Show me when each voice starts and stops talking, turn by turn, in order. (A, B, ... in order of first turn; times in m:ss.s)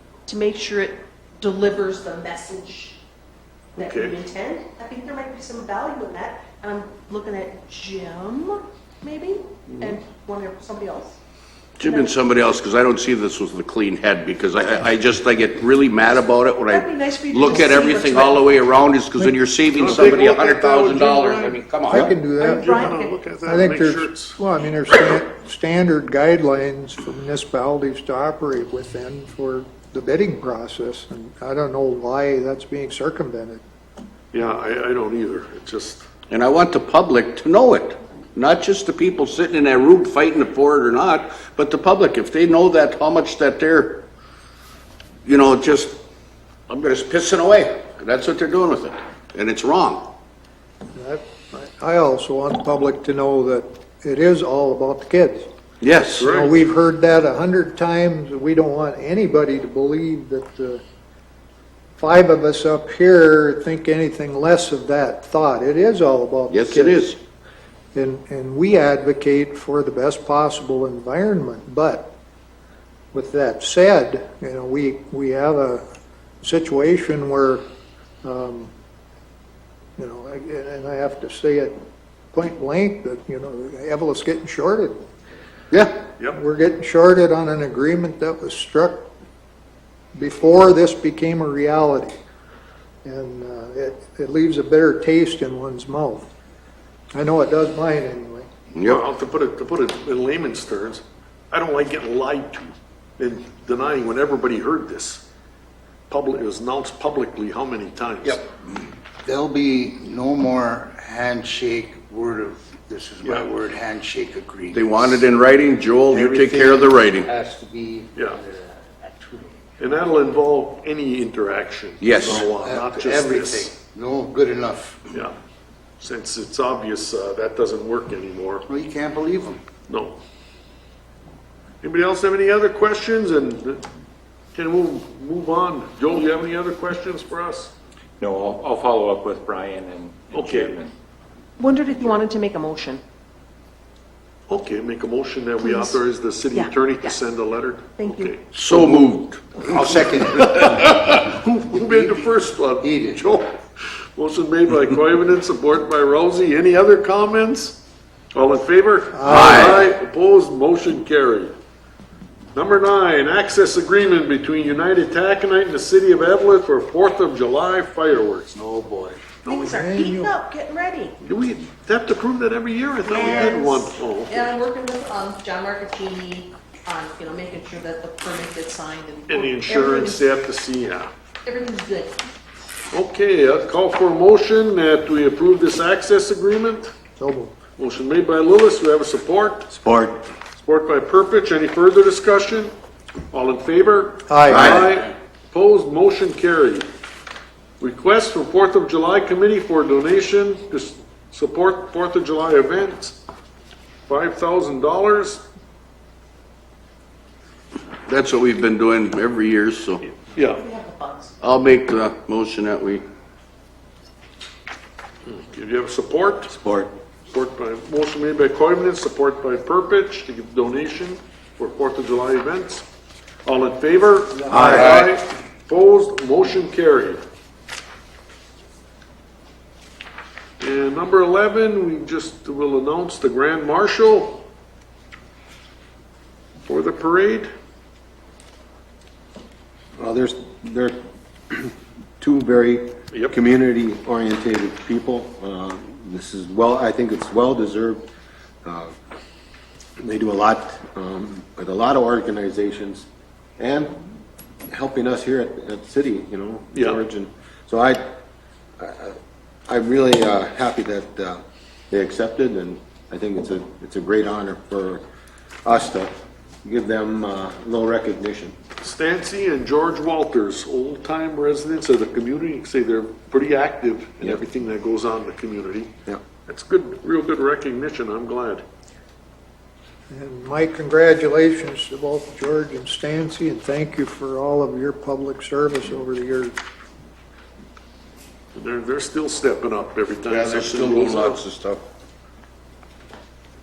0:00.3-0:03.0 A
0:03.8-0:04.2 B
0:03.8-0:11.2 A
0:11.8-0:22.1 C
0:11.8-0:12.1 A
0:16.7-0:18.4 A
0:19.7-0:21.6 B
0:21.9-0:33.6 D
0:22.4-0:23.2 A
0:22.4-0:24.4 B
0:34.3-0:36.0 B
0:36.3-0:44.0 C
0:45.2-0:46.0 C
0:46.7-0:50.1 C
0:50.9-0:55.5 D
0:55.8-0:56.3 C
0:56.2-0:56.5 B
0:56.2-1:00.8 D
1:02.0-1:07.1 D
1:06.5-1:07.2 C
1:07.9-1:12.1 D
1:13.1-1:15.8 D
1:16.4-1:17.6 D
1:18.2-1:18.7 D
1:20.0-1:21.7 D
1:22.3-1:25.0 D
1:26.3-1:29.1 D
1:30.1-1:32.1 D
1:33.0-1:36.3 D
1:37.1-1:38.5 D
1:38.7-1:39.0 C
1:38.8-1:45.2 B
1:46.1-1:48.4 B
1:49.2-1:55.2 E
1:53.2-1:53.5 B
1:54.7-1:57.3 C
1:56.1-1:58.5 E
1:58.1-1:58.4 B
1:59.0-1:59.5 E
1:59.8-2:03.8 B
2:02.0-2:02.4 C
2:02.2-2:05.0 E
2:06.0-2:08.6 B
2:08.7-2:09.6 E
2:09.9-2:10.2 B
2:11.8-2:13.8 B
2:14.5-2:17.7 B
2:18.2-2:20.9 F
2:20.3-2:20.8 B
2:21.6-2:23.0 A
2:24.5-2:28.9 B
2:25.6-2:26.0 A
2:26.5-2:27.1 A
2:28.0-2:28.4 A
2:28.5-2:30.0 C
2:29.6-2:30.9 E
2:29.6-2:33.5 B
2:32.8-2:33.3 E
2:34.2-2:37.8 B
2:38.3-2:41.5 B
2:39.1-2:39.8 D
2:39.2-2:39.8 C
2:42.5-2:48.5 B
2:48.5-2:49.2 E
2:49.4-2:51.2 A
2:49.5-2:50.4 D
2:51.2-2:54.5 B
2:53.1-3:00.2 A
2:59.3-3:01.1 B
3:01.4-3:02.2 A
3:02.9-3:06.9 B
3:07.2-3:07.5 D
3:07.8-3:09.7 B
3:09.7-3:10.2 G
3:10.6-3:12.7 B
3:13.3-3:16.8 B
3:14.3-3:14.9 D
3:14.5-3:14.9 G
3:17.8-3:23.2 B
3:24.1-3:25.4 B
3:28.1-3:30.0 C
3:30.0-3:30.6 B
3:30.5-3:31.3 A
3:31.4-3:33.0 C
3:35.2-3:36.6 B
3:36.6-3:36.9 G
3:37.3-3:42.8 B
3:43.4-3:47.2 B
3:44.5-3:45.1 C
3:50.6-3:54.4 B
3:56.7-3:57.5 B
4:00.0-4:01.0 G
4:01.5-4:08.1 G
4:08.6-4:08.9 G
4:10.0-4:13.0 G
4:13.6-4:14.0 G
4:14.7-4:18.0 G
4:16.7-4:17.0 B
4:18.8-4:19.2 G
4:19.7-4:25.0 G
4:25.6-4:28.5 G
4:28.8-4:35.9 B
4:36.4-4:38.6 B
4:40.1-4:46.5 D
4:48.5-4:51.4 B
4:50.3-4:51.8 C